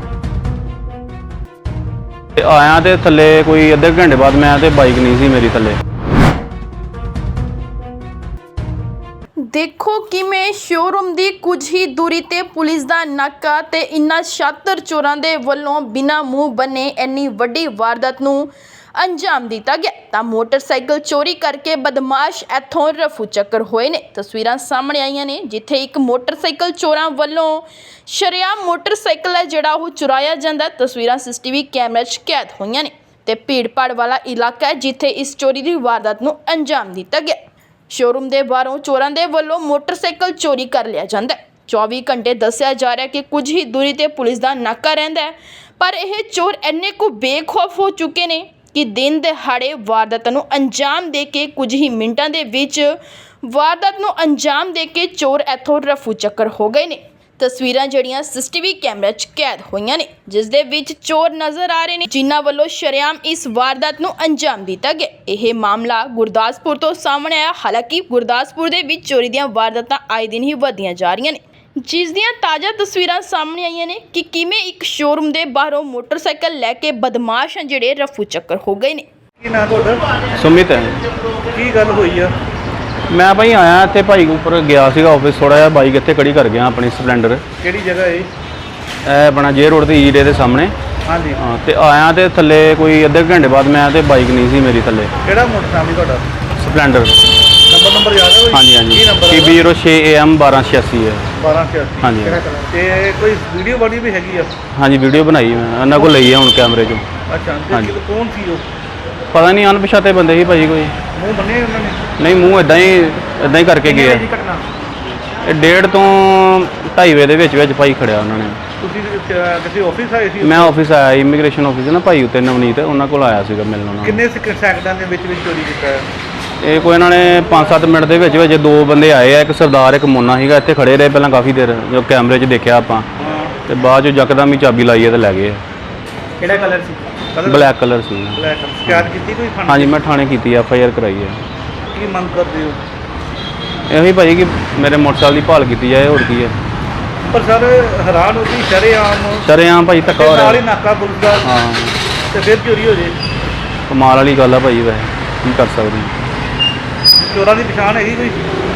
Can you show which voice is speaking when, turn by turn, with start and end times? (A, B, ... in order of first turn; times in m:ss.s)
0:02.4-0:05.8 A
0:09.4-0:37.4 B
0:37.9-1:19.1 B
1:19.4-1:20.0 C
1:20.4-1:21.0 A
1:21.5-1:22.3 C
1:23.1-1:27.4 A
1:27.6-1:28.3 C
1:29.0-1:30.7 A
1:31.1-1:31.4 C
1:31.4-1:35.1 A
1:35.2-1:36.2 C
1:36.6-1:37.2 A
1:37.7-1:39.6 C
1:38.5-1:41.3 A
1:41.4-1:44.5 C
1:42.0-1:42.5 A
1:44.8-1:47.1 A
1:47.3-1:48.6 C
1:49.3-1:50.9 A
1:51.1-1:52.0 C
1:52.2-1:54.3 A
1:55.4-1:58.6 A
1:58.8-2:00.8 C
2:00.4-2:04.2 A
2:04.0-2:06.1 C
2:06.6-2:13.1 A
2:13.2-2:13.6 C
2:13.7-2:15.6 A
2:16.4-2:17.7 C
2:17.4-2:19.1 A
2:18.4-2:20.0 C
2:19.7-2:21.4 A
2:21.9-2:22.8 C
2:23.9-2:26.6 A
2:27.3-2:29.5 C
2:29.4-2:30.6 A
2:30.1-2:31.5 C
2:31.4-2:32.0 A
2:32.3-2:33.2 C
2:33.9-2:36.2 A
2:37.3-2:38.4 C